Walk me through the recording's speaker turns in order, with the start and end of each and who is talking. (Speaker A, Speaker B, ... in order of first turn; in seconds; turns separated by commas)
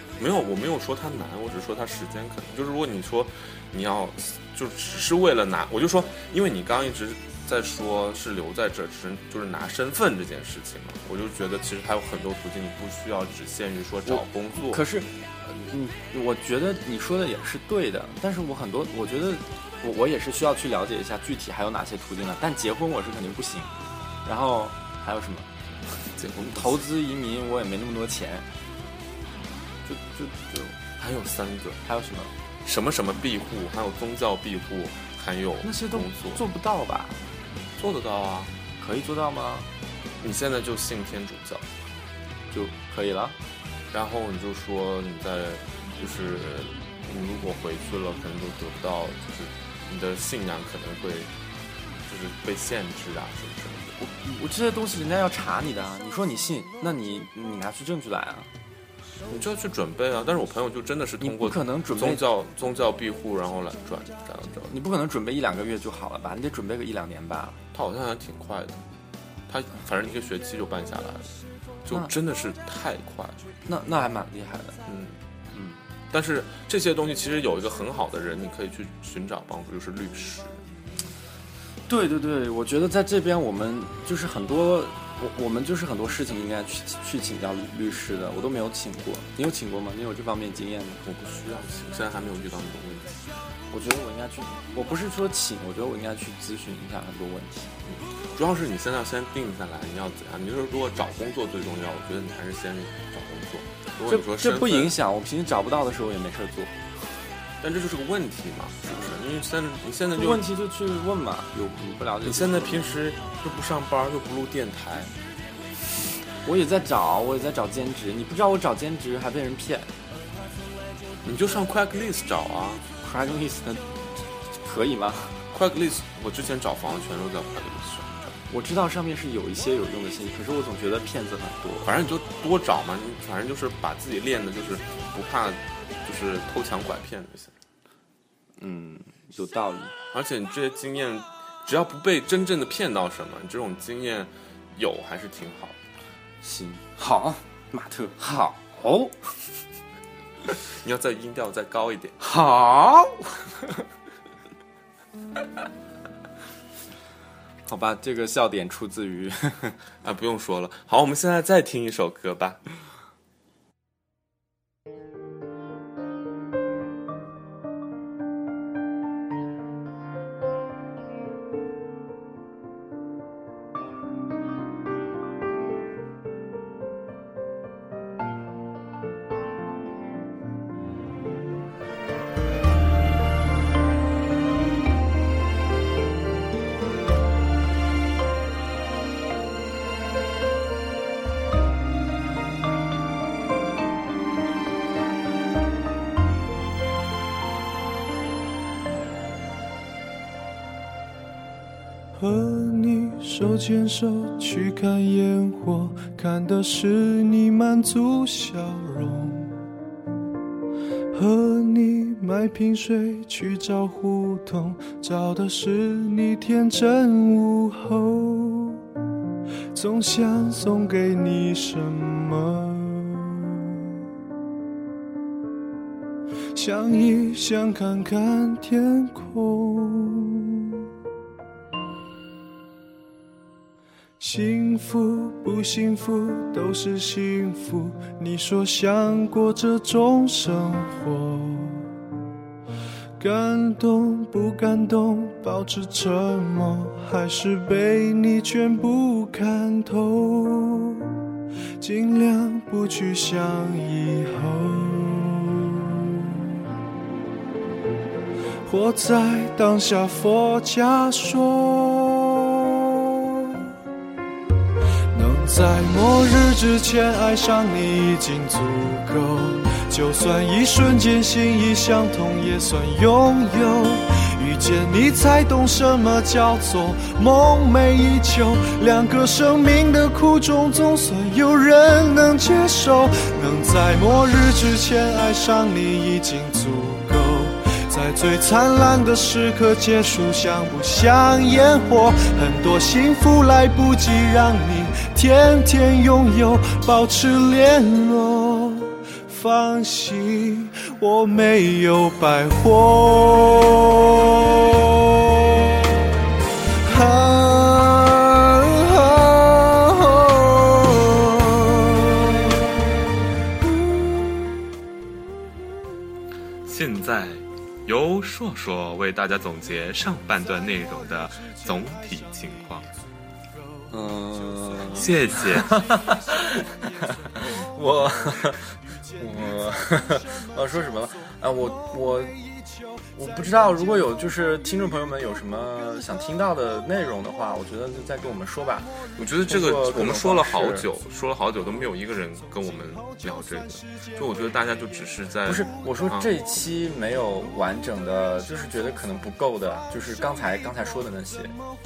Speaker A: 0.2-14.8, Speaker B: 14.1-23.7, Speaker B: 24.2-25.5, Speaker A: 26.1-26.8, Speaker B: 26.3-28.5, Speaker B: 29.9-30.7, Speaker A: 31.0-31.8, Speaker B: 31.8-32.3, Speaker A: 32.6-36.4, Speaker B: 35.6-37.2, Speaker A: 37.8-38.5, Speaker B: 38.8-39.7, Speaker A: 40.2-41.6, Speaker B: 42.5-43.4, Speaker A: 43.9-51.3, Speaker A: 52.0-54.0, Speaker B: 54.0-58.5, Speaker A: 59.3-64.7, Speaker B: 61.2-62.2, Speaker B: 64.7-67.6, Speaker A: 67.7-68.8, Speaker A: 69.5-71.3, Speaker A: 71.8-73.5, Speaker B: 73.7-74.8, Speaker A: 74.8-75.2, Speaker B: 75.5-75.8, Speaker A: 76.1-80.6, Speaker B: 81.9-91.0, Speaker A: 91.0-93.2, Speaker B: 93.7-97.7, Speaker A: 97.9-104.9, Speaker B: 104.0-106.7, Speaker A: 107.6-110.5, Speaker B: 108.9-109.2, Speaker B: 110.1-112.9, Speaker A: 112.2-115.1, Speaker B: 116.4-119.9, Speaker A: 121.2-122.8, Speaker B: 123.0-123.9, Speaker B: 124.6-125.4, Speaker A: 125.5-128.4, Speaker B: 128.5-131.9, Speaker A: 131.8-137.5, Speaker B: 138.6-139.9, Speaker A: 140.1-145.8, Speaker B: 146.4-149.2, Speaker A: 150.7-152.2, Speaker B: 152.2-153.6, Speaker B: 157.7-159.8, Speaker A: 160.0-162.6, Speaker C: 202.1-209.6, Speaker C: 211.1-218.8, Speaker C: 219.7-223.7, Speaker C: 226.5-230.8, Speaker C: 234.2-241.9, Speaker C: 243.2-251.2, Speaker C: 251.8-256.1, Speaker C: 258.6-263.6, Speaker C: 265.1-305.5, Speaker C: 306.8-311.5, Speaker A: 316.6-322.9, Speaker B: 323.9-332.4, Speaker A: 324.9-325.9, Speaker B: 333.1-340.9, Speaker A: 339.2-346.3, Speaker B: 345.4-351.6